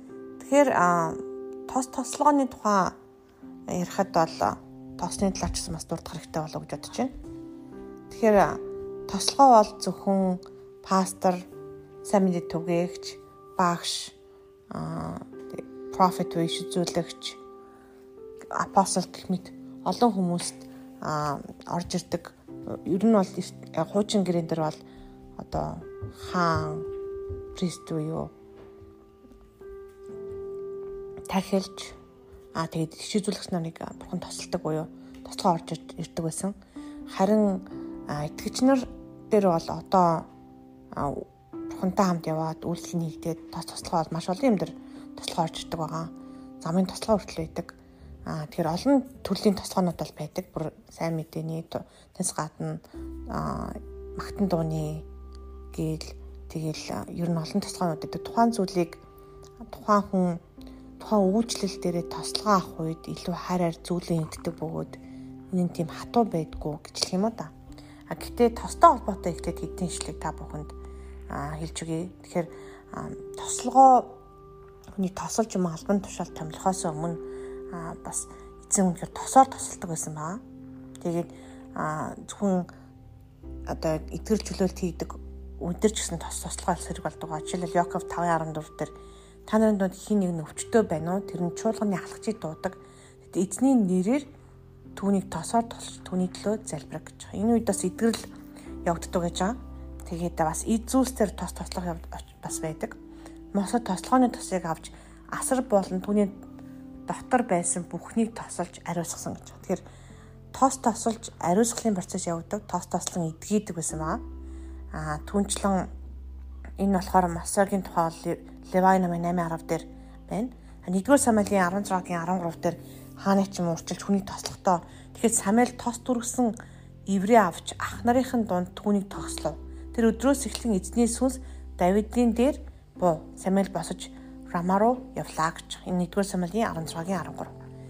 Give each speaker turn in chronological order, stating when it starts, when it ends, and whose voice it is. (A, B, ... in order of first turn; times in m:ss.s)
0:00.4-0:03.0 A
0:03.7-0:07.1 A
0:08.1-0:11.5 A
0:12.0-0:14.2 A
0:14.7-0:17.4 A
0:18.5-0:24.8 A
0:25.4-0:26.9 A
0:27.5-0:28.3 A
0:31.3-0:32.0 A
0:32.5-0:36.5 A
0:37.1-0:40.3 A
0:40.9-0:55.1 A
0:55.7-0:59.0 A
0:59.6-1:00.4 A
1:01.0-1:05.0 A
1:05.5-1:07.5 A
1:08.1-1:10.7 A
1:11.3-1:14.2 A
1:14.9-1:20.4 A
1:21.0-1:22.7 A
1:23.7-1:28.9 A
1:29.4-1:34.3 A
1:35.0-1:38.3 A
1:38.8-1:43.0 A
1:43.5-1:46.4 A
1:47.1-1:49.8 A
1:50.5-1:54.2 A
1:54.9-1:55.9 A
1:56.8-2:17.6 A